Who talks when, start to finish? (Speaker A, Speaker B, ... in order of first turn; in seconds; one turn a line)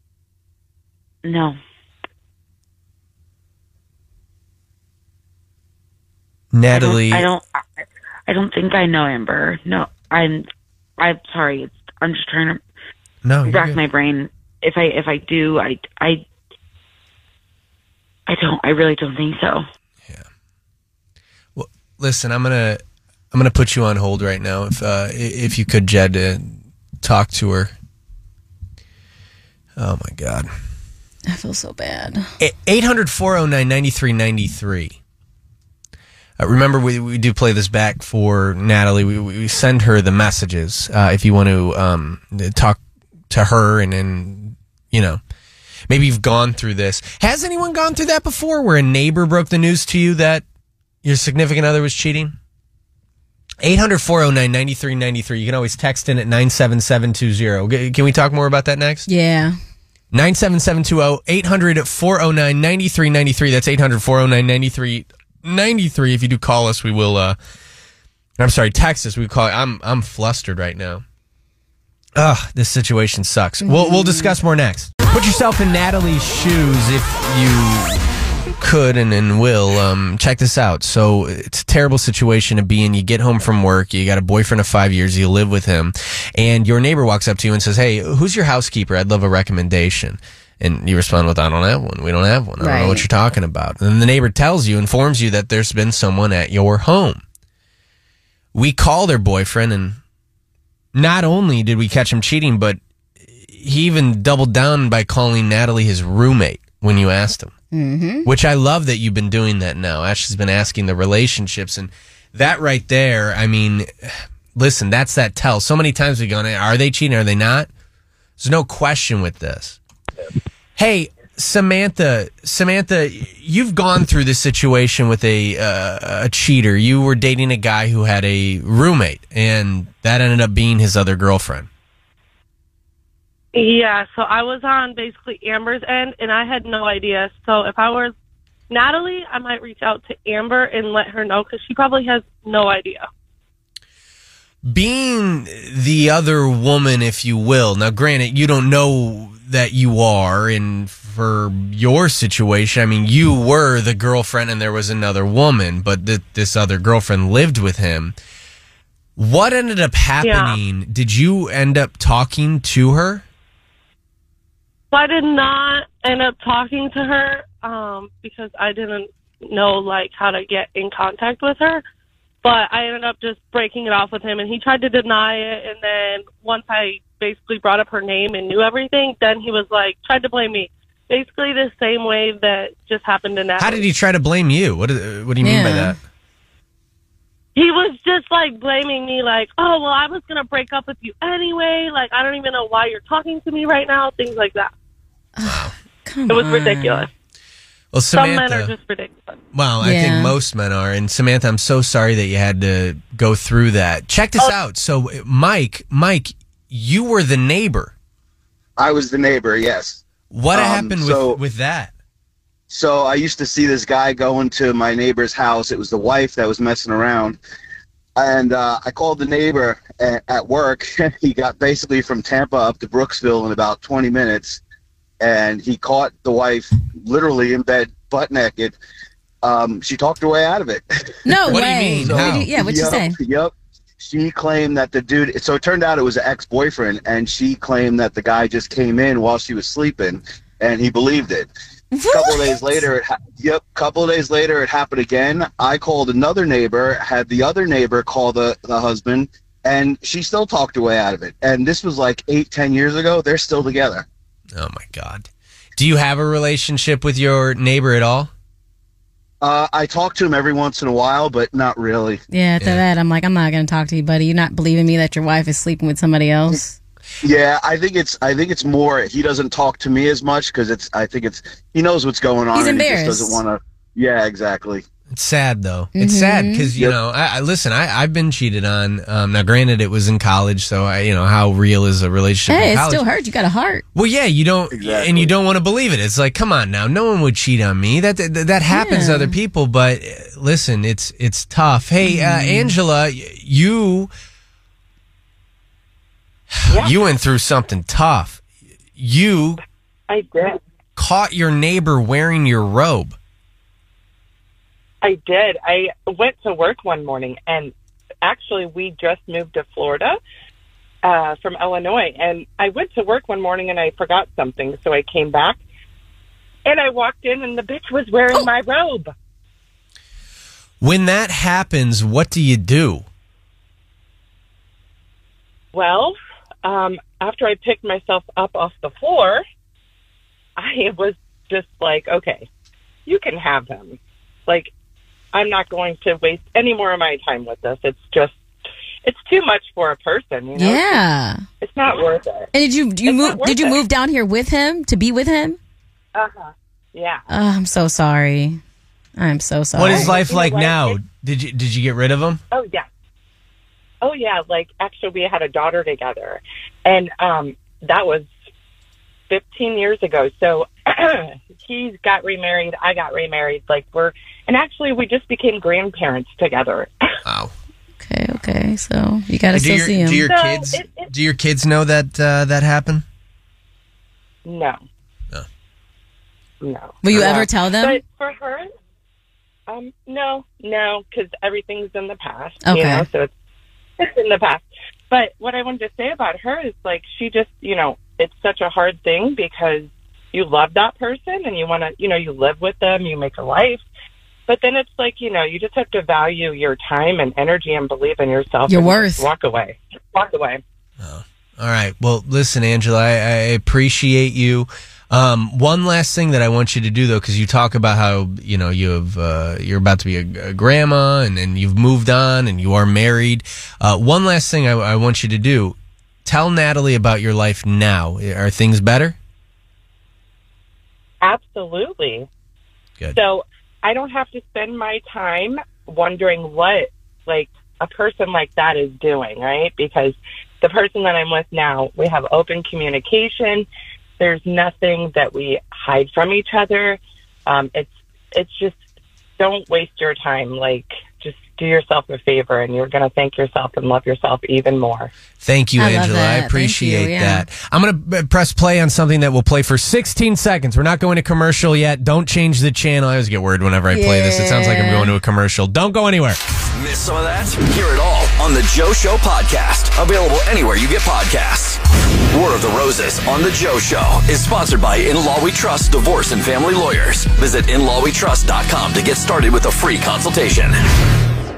Speaker A: 1.2-1.6
Speaker B: 6.5-7.3
Speaker A: 6.7-10.5
Speaker A: 11.0-12.6
Speaker B: 13.2-13.8
Speaker A: 13.4-16.2
Speaker A: 18.3-19.6
Speaker B: 21.6-27.7
Speaker B: 29.8-30.5
Speaker C: 31.3-32.3
Speaker B: 32.4-35.0
Speaker B: 36.4-45.2
Speaker B: 45.9-50.5
Speaker B: 51.0-52.4
Speaker B: 53.6-59.1
Speaker C: 59.1-59.6
Speaker B: 60.1-67.4
Speaker B: 68.4-71.0
Speaker B: 72.2-78.0
Speaker C: 73.6-74.3
Speaker B: 78.6-97.2
Speaker C: 92.6-93.0
Speaker B: 98.5-100.0
Speaker B: 100.9-102.8
Speaker B: 103.4-107.5
Speaker C: 107.7-108.3
Speaker B: 108.3-117.7
Speaker B: 118.4-119.8
Speaker B: 120.8-131.7
Speaker D: 133.5-138.1
Speaker D: 138.7-143.1
Speaker B: 144.7-158.2
Speaker B: 159.2-163.2
Speaker D: 160.2-160.6
Speaker D: 164.9-171.8
Speaker D: 172.4-183.8
Speaker B: 183.6-186.0
Speaker C: 185.4-186.0
Speaker D: 187.6-194.7
Speaker C: 195.4-197.1
Speaker B: 195.4-195.7
Speaker D: 196.3-197.1
Speaker B: 197.9-198.7
Speaker D: 198.1-199.3
Speaker B: 199.5-207.9
Speaker C: 199.8-200.3
Speaker E: 208.8-211.4
Speaker B: 210.3-211.9
Speaker E: 212.7-217.4
Speaker E: 218.2-224.6
Speaker E: 225.2-228.8
Speaker E: 229.4-241.5
Speaker C: 231.3-233.2
Speaker B: 231.3-232.5
Speaker C: 241.9-242.8
Speaker E: 242.1-254.1
Speaker B: 254.5-258.3
Speaker E: 259.4-262.2
Speaker C: 262.3-266.7
Speaker E: 267.2-274.8
Speaker C: 272.5-273.4
Speaker B: 275.1-283.1
Speaker C: 276.0-276.7
Speaker C: 282.5-283.9
Speaker B: 283.9-294.1
Speaker E: 284.7-285.3
Speaker C: 288.7-289.3
Speaker C: 292.0-292.7
Speaker B: 296.5-298.4
Speaker B: 299.0-299.6
Speaker F: 300.1-300.6
Speaker B: 301.0-303.2
Speaker F: 305.0-310.2
Speaker F: 311.0-315.6
Speaker F: 316.7-319.1
Speaker B: 320.8-323.1
Speaker F: 325.7-329.4
Speaker F: 330.6-332.5
Speaker F: 333.1-334.7
Speaker F: 335.3-338.4
Speaker F: 339.0-341.0
Speaker C: 340.6-341.4
Speaker F: 341.6-342.5
Speaker C: 342.5-345.6
Speaker F: 343.1-343.8
Speaker F: 346.1-347.2
Speaker C: 347.3-348.6
Speaker C: 349.2-350.2
Speaker B: 349.7-352.4
Speaker F: 349.8-351.0
Speaker F: 352.5-352.9
Speaker F: 354.0-358.3
Speaker F: 359.3-367.2
Speaker B: 367.3-367.5
Speaker C: 368.0-370.3
Speaker B: 369.5-373.1
Speaker F: 370.2-371.1
Speaker F: 374.5-374.8
Speaker F: 376.6-378.7
Speaker C: 377.0-378.0
Speaker F: 379.7-383.3
Speaker C: 382.6-383.1
Speaker F: 384.0-393.8
Speaker F: 394.5-400.6
Speaker C: 398.7-399.3
Speaker B: 401.0-419.2
Speaker F: 421.2-422.3
Speaker F: 423.1-433.7
Speaker F: 434.2-438.8
Speaker F: 439.4-445.1
Speaker B: 445.4-456.4
Speaker C: 445.8-447.4
Speaker C: 453.9-455.1
Speaker G: 456.8-461.8
Speaker G: 462.3-470.8